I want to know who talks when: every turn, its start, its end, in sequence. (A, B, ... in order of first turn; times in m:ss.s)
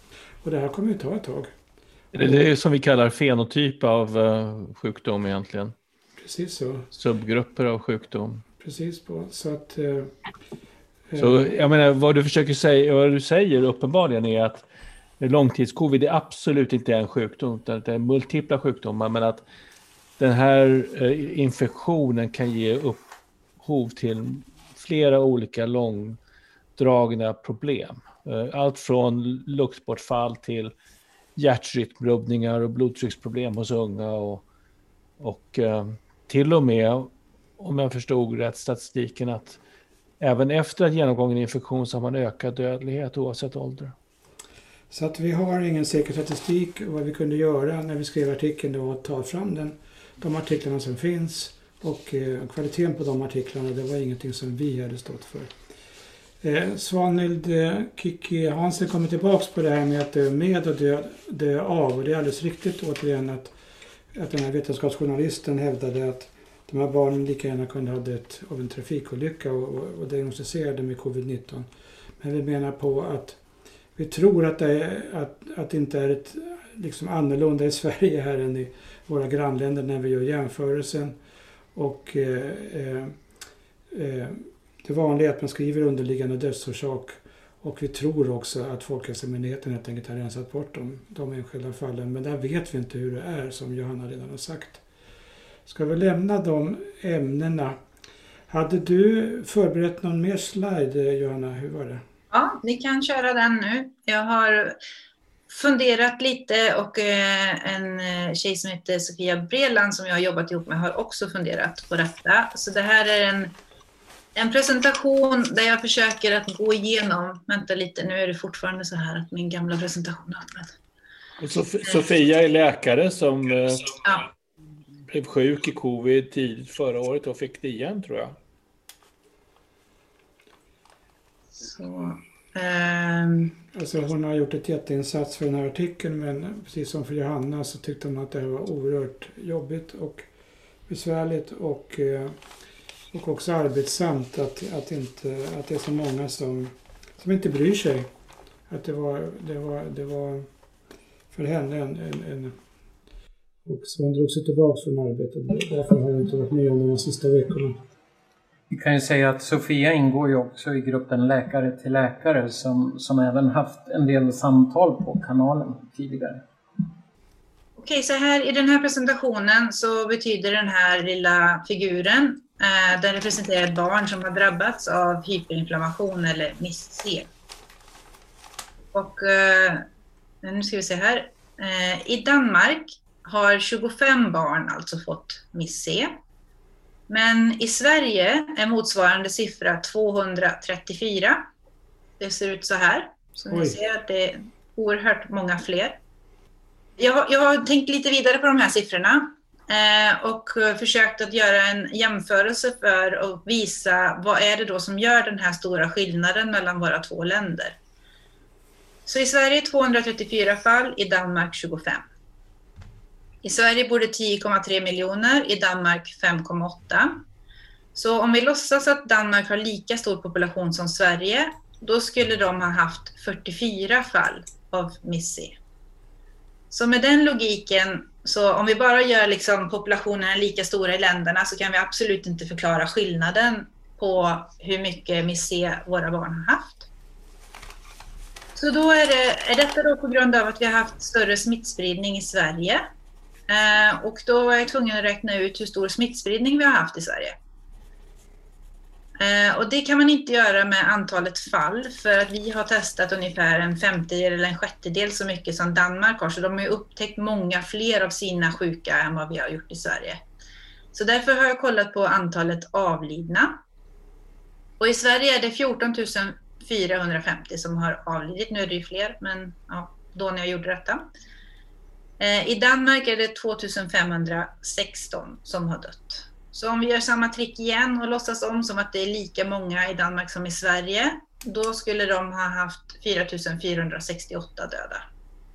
0:00.4-0:01.5 A
0:02.1-0:05.8 B
0:06.2-0:06.9 A
0:06.9-0:08.4 B
0:08.6-0:10.1 A
0:11.1-0:11.4 A
0:11.2-0:14.7 B
0:15.2-0:19.4 B
0:20.2-0:23.0 B
0:23.6-0:26.2 B
0:26.8-0:30.7 B
0:31.4-0:34.4 B
0:35.2-0:39.6 B
0:40.2-0:43.9 B
0:44.9-0:55.5 A
0:56.4-1:03.5 A
1:04.1-1:11.7 A
1:12.2-1:13.4 A
1:14.0-1:21.2 A
1:21.8-1:23.2 A
1:23.9-1:34.8 A
1:35.7-1:37.8 A
1:38.5-1:42.0 A
1:42.3-1:44.8 C
1:45.5-1:53.5 C
1:54.4-2:00.7 C
2:01.4-2:04.0 B
2:05.1-2:08.4 B
2:11.6-2:13.6 C
2:13.7-2:20.3 A
2:20.9-2:22.4 A
2:23.1-2:28.1 A
2:28.7-2:30.5 A
2:31.3-2:32.6 A
2:33.7-2:37.8 A
2:38.7-2:46.8 D
2:47.8-2:57.3 C
2:58.9-2:59.8 C
3:00.4-3:06.1 C
3:07.1-3:11.5 C
3:12.2-3:16.0 C
3:13.5-3:13.8 A
3:17.0-3:27.8 C
3:29.1-3:32.0 C
3:33.4-3:37.2 C
3:38.0-3:45.6 C
3:46.7-3:56.9 C
3:58.6-4:02.9 C
4:03.5-4:07.4 C
4:09.2-4:20.2 C
4:20.9-4:23.6 C
4:24.8-4:31.0 C
4:32.2-4:45.0 C